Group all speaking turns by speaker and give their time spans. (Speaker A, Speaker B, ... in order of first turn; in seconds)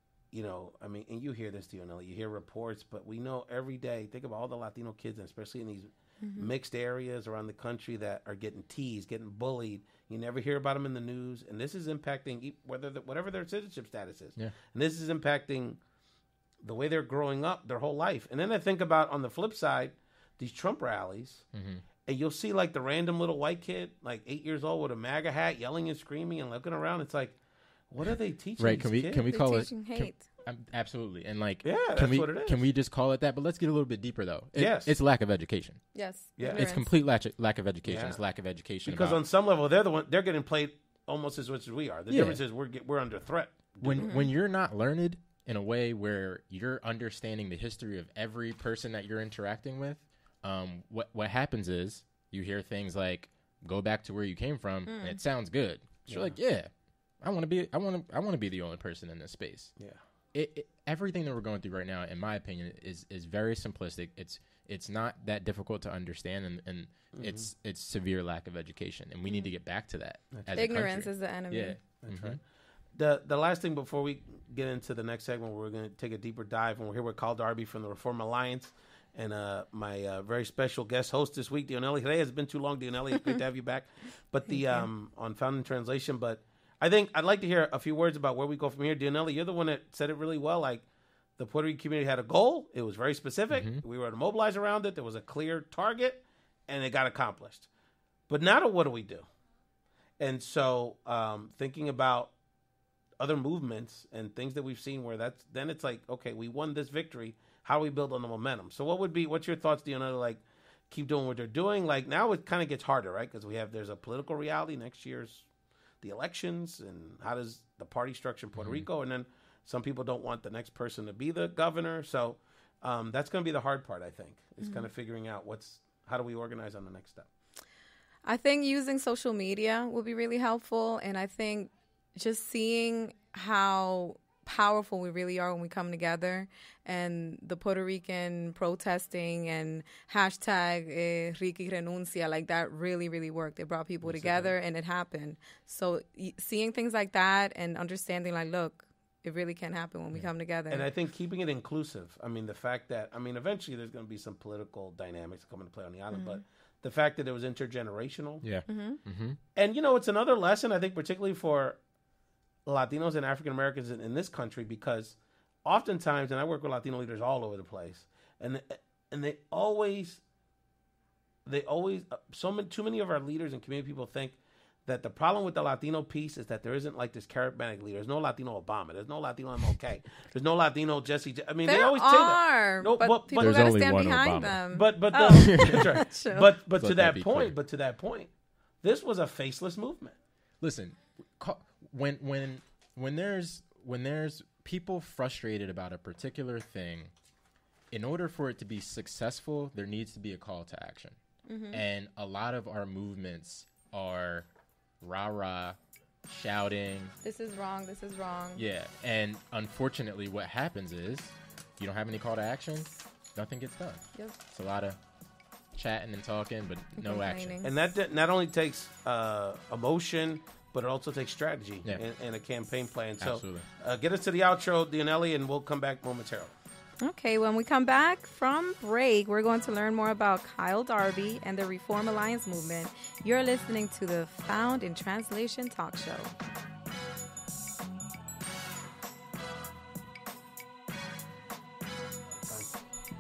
Speaker A: 0.3-15.8, 16.6-21.4, 22.1-27.4, 27.9-29.3, 31.6-32.6, 34.5-35.0, 36.4-36.7, 37.9-38.2, 38.9-44.1, 56.1-56.4, 67.1-67.5, 72.0-72.4, 73.0-90.8, 91.4-97.7, 98.3-99.3, 100.2-102.3, 103.2-115.5, 116.0-127.3, 144.1-144.5, 150.7-158.4, 159.6-161.8, 162.7-170.2, 171.5-183.7, 184.7-188.3, 188.8-190.2, 217.6-226.5, 242.5-242.7
Speaker B: 6.2-6.5, 29.3-30.2, 35.9-36.9, 44.0-44.3, 54.9-55.2, 70.5-71.8, 84.5-84.9, 124.6-124.9, 128.2-150.9, 156.1-156.4, 158.7-159.0, 181.7-186.5, 201.5-201.8, 207.2-208.6, 217.0-217.7, 227.0-236.3
Speaker C: 21.5-21.8, 28.6-35.8, 36.5-39.2, 42.1-42.4, 43.8-59.7, 60.3-72.4, 93.5-93.8, 118.5-118.9, 158.4-159.4, 183.4-184.6, 185.6-185.9, 186.8-187.5, 190.6-197.1, 197.9-201.2, 201.7-204.5, 205.0-207.2, 208.6-215.0, 215.7-217.6, 223.2-223.7